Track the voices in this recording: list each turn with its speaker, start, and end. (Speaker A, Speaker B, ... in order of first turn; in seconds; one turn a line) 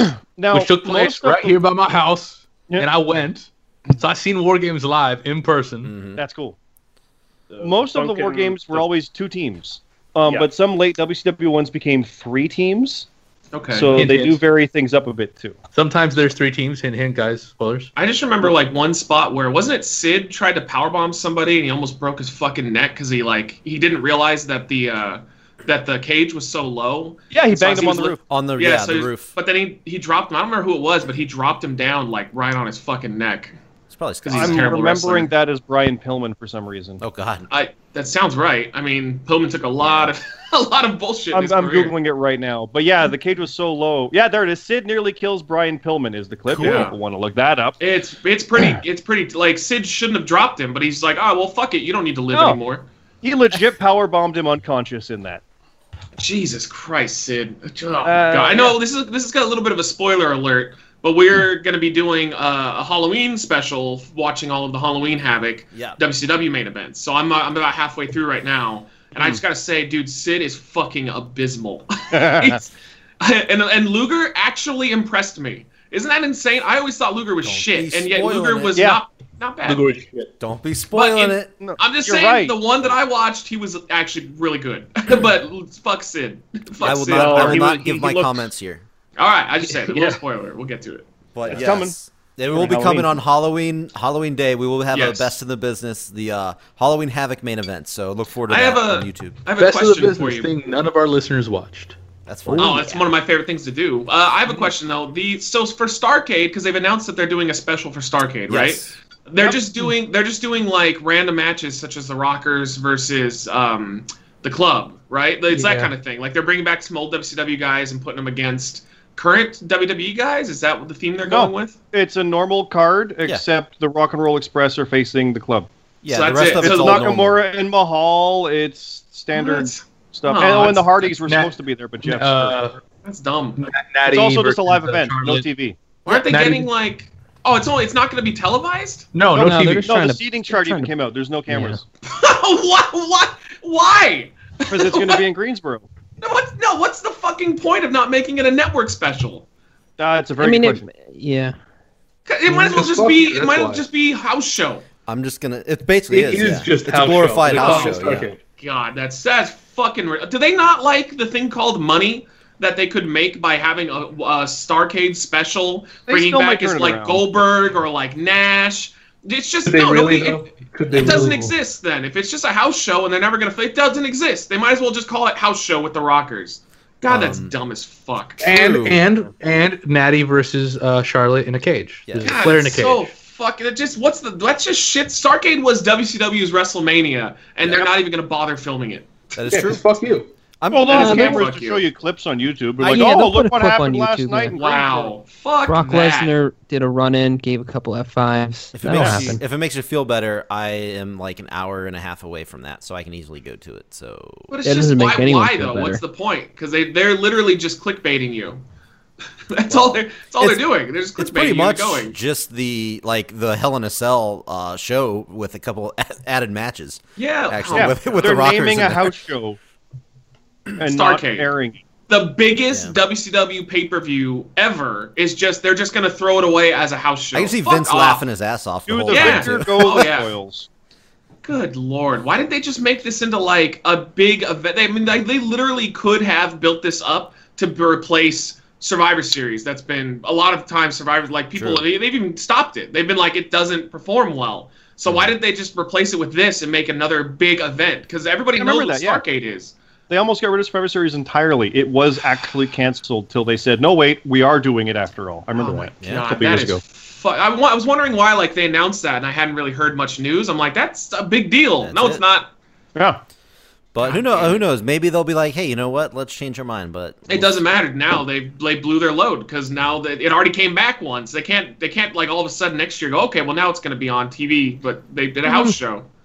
Speaker A: 0.2-1.6
Speaker B: 0.5-5.9
Speaker C: 5.8-6.2
Speaker A: 6.1-6.6
Speaker D: 7.5-8.9
Speaker A: 7.6-13.1
Speaker E: 13.5-14.0
Speaker A: 13.7-15.6
Speaker B: 13.9-14.4
Speaker B: 15.7-17.9
Speaker E: 17.9-33.5
Speaker A: 27.3-28.2
Speaker C: 28.3-29.3
Speaker C: 33.9-34.6
Speaker E: 34.2-35.3
Speaker A: 34.3-37.0
Speaker C: 37.0-37.5
Speaker E: 37.5-41.9
Speaker C: 39.8-40.1
Speaker A: 41.3-47.8
Speaker C: 46.5-46.9
Speaker E: 46.6-46.9
Speaker E: 47.8-52.9
Speaker A: 52.3-52.6
Speaker A: 53.2-55.4
Speaker E: 56.2-79.8
Speaker A: 58.0-58.8
Speaker C: 65.7-66.0
Speaker A: 72.1-72.6
Speaker C: 77.4-78.8
Speaker B: 79.6-80.3
Speaker C: 80.4-81.5
Speaker E: 80.9-87.7
Speaker A: 81.6-82.6
Speaker C: 86.8-88.8
Speaker D: 87.1-88.5
Speaker E: 89.2-91.0
Speaker B: 89.7-90.2
Speaker C: 91.3-99.4
Speaker A: 91.5-91.9
Speaker A: 92.5-93.2
Speaker E: 94.9-95.3
Speaker E: 98.5-100.5
Speaker B: 99.6-102.0
Speaker C: 102.2-103.1
Speaker E: 102.6-121.8
Speaker C: 108.5-108.9
Speaker F: 115.5-115.9
Speaker A: 121.3-125.7
Speaker C: 126.0-127.4
Speaker E: 126.1-127.0
Speaker A: 126.6-132.6
Speaker E: 129.3-131.0
Speaker B: 131.2-131.5
Speaker B: 132.0-132.8
Speaker E: 133.0-133.6
Speaker B: 133.6-135.5
Speaker A: 134.1-135.8
Speaker E: 136.1-139.1
Speaker B: 136.1-136.7
Speaker B: 139.1-139.9
Speaker A: 139.3-141.8
Speaker F: 139.4-140.9
Speaker F: 141.5-141.8
Speaker E: 142.0-145.2
Speaker A: 144.7-145.9
Speaker E: 146.2-149.4
Speaker A: 150.0-150.9
Speaker F: 150.4-151.6
Speaker E: 152.3-154.8
Speaker B: 152.5-153.9
Speaker C: 155.1-158.3
Speaker B: 156.1-158.4
Speaker E: 157.4-178.4
Speaker A: 166.1-167.4
Speaker B: 169.7-171.5
Speaker C: 177.1-177.5
Speaker B: 178.4-183.1
Speaker C: 178.4-179.0
Speaker C: 182.1-182.5
Speaker E: 182.2-189.3
Speaker C: 189.4-189.8
Speaker B: 189.5-190.3
Speaker C: 190.6-191.4
Speaker A: 190.7-195.1
Speaker E: 190.9-191.9
Speaker F: 191.0-191.3
Speaker F: 192.8-194.6
Speaker E: 194.5-196.3
Speaker F: 195.7-199.4
Speaker C: 198.7-204.5
Speaker E: 204.5-208.6
Speaker F: 204.6-206.0
Speaker E: 209.5-212.2
Speaker C: 209.7-210.6
Speaker C: 211.2-219.1
Speaker E: 217.2-218.1
Speaker A: 217.7-219.6
Speaker A: 220.8-221.8
Speaker E: 220.9-221.5
Speaker E: 222.1-228.2
Speaker C: 227.3-230.1
Speaker A: 228.9-230.7
Speaker E: 229.1-230.3
Speaker E: 231.4-249.7
Speaker C: 241.6-241.8
Speaker C: 245.1-245.3
Speaker A: 248.6-249.2
Speaker A: 250.1-256.8
Speaker E: 255.6-262.5
Speaker C: 256.0-256.3
Speaker C: 261.8-262.2
Speaker A: 262.9-263.2
Speaker C: 263.9-267.6
Speaker E: 264.0-264.6
Speaker E: 267.3-276.1
Speaker F: 275.4-275.8